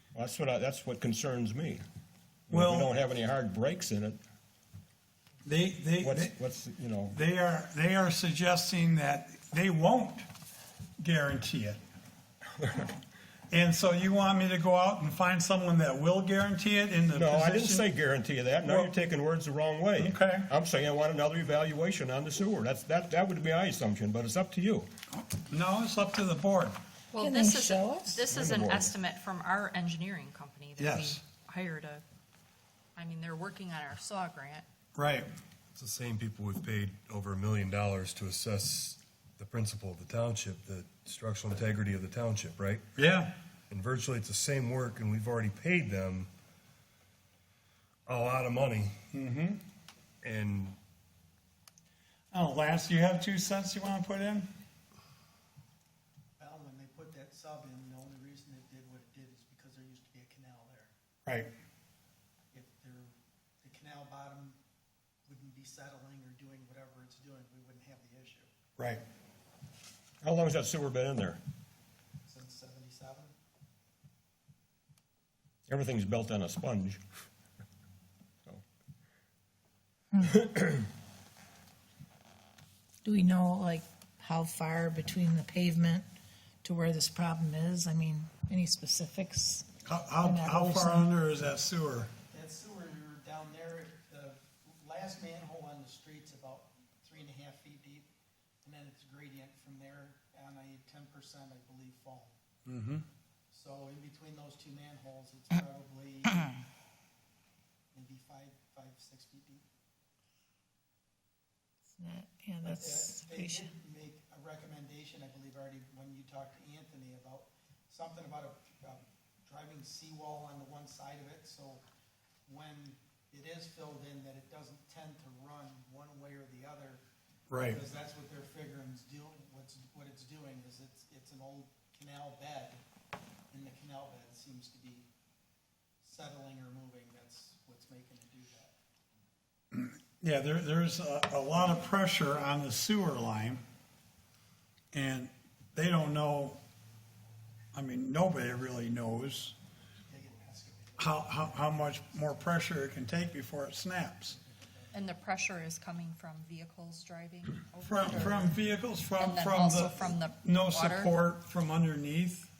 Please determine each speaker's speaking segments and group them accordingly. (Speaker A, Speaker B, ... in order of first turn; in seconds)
Speaker A: 0.1-1.8, 2.5-4.2, 6.0-7.2, 12.6-13.0, 17.1-24.9, 28.3-28.9, 70.2-71.4, 75.7-77.0, 80.2-80.8
Speaker B: 2.5-2.9, 5.4-6.3, 7.1-10.3, 11.0-11.8, 13.5-17.9, 18.6-18.9, 20.0-20.5, 25.1-26.8, 30.8-31.2, 34.9-35.3, 42.9-43.3, 49.1-49.6, 52.3-54.5, 61.2-61.5, 68.8-69.0, 89.8-92.1, 102.7-103.0, 127.5-127.8, 139.7-143.6, 144.9-146.6, 147.7-149.6, 151.0-154.3, 157.8-162.5
Speaker C: 27.1-32.0, 32.9-34.6, 154.9-158.6, 159.2-161.1
Speaker D: 27.2-28.2, 83.0-86.0, 86.6-89.7, 90.2-91.1, 112.0-113.7
Speaker E: 35.7-42.8, 43.7-46.3, 48.1-48.9, 50.2-50.8
Speaker F: 56.4-60.9, 62.5-64.6, 65.3-68.5, 72.2-73.3, 92.3-98.1, 98.6-102.3, 103.5-106.5, 107.9-109.6, 112.6-121.8, 122.5-127.0, 127.5-132.8, 133.5-135.1, 136.0-138.7, 150.1-152.0, 154.2-155.2